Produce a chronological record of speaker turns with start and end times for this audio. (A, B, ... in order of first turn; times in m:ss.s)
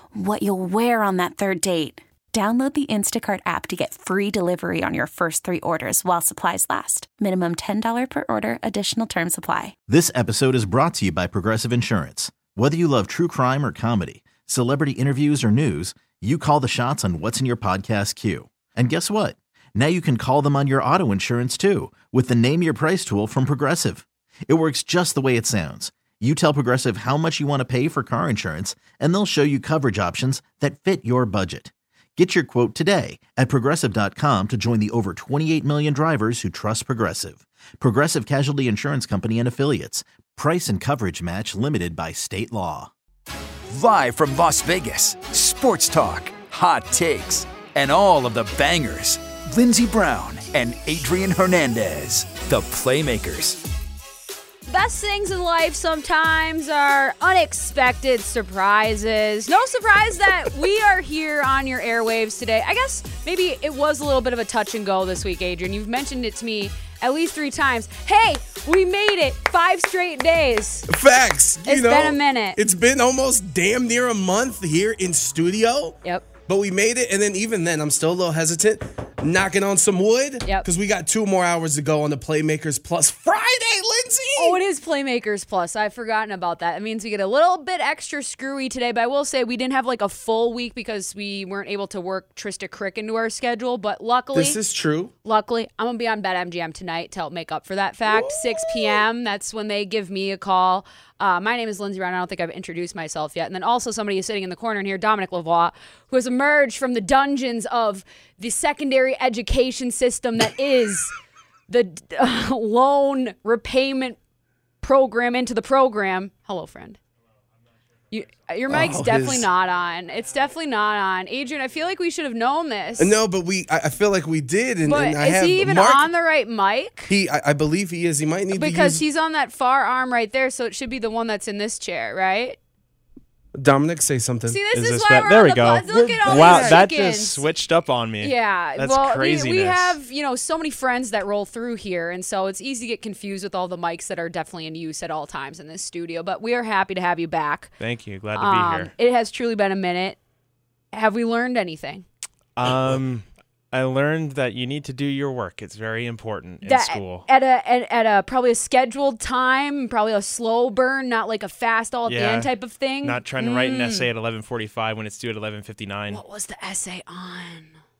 0:00.3-0:02.0 A
0:02.5-0:09.5 A
0:09.9-0:42.9 B
0:43.7-0:53.6 C
0:54.7-1:10.9 D
1:10.9-1:24.6 E
1:11.6-1:12.6 D
1:24.4-1:34.6 D
1:34.3-1:35.1 E
1:35.2-1:51.1 D
1:38.1-1:39.0 E
1:51.7-1:54.2 D
1:54.8-1:57.0 D
1:58.1-2:03.2 D
1:58.7-1:59.5 E
2:03.0-2:06.1 E
2:04.8-2:07.1 D
2:07.1-2:09.0 E
2:08.5-2:12.6 D
2:13.6-2:14.6 E
2:14.5-2:17.4 D
2:14.7-2:20.0 F
2:15.9-2:16.8 E
2:18.2-2:27.7 D
2:27.8-2:28.9 F
2:28.3-2:30.2 D
2:30.9-2:32.0 D
2:32.6-2:37.3 F
2:36.6-2:44.1 D
2:42.1-2:46.2 F
2:46.1-2:47.7 D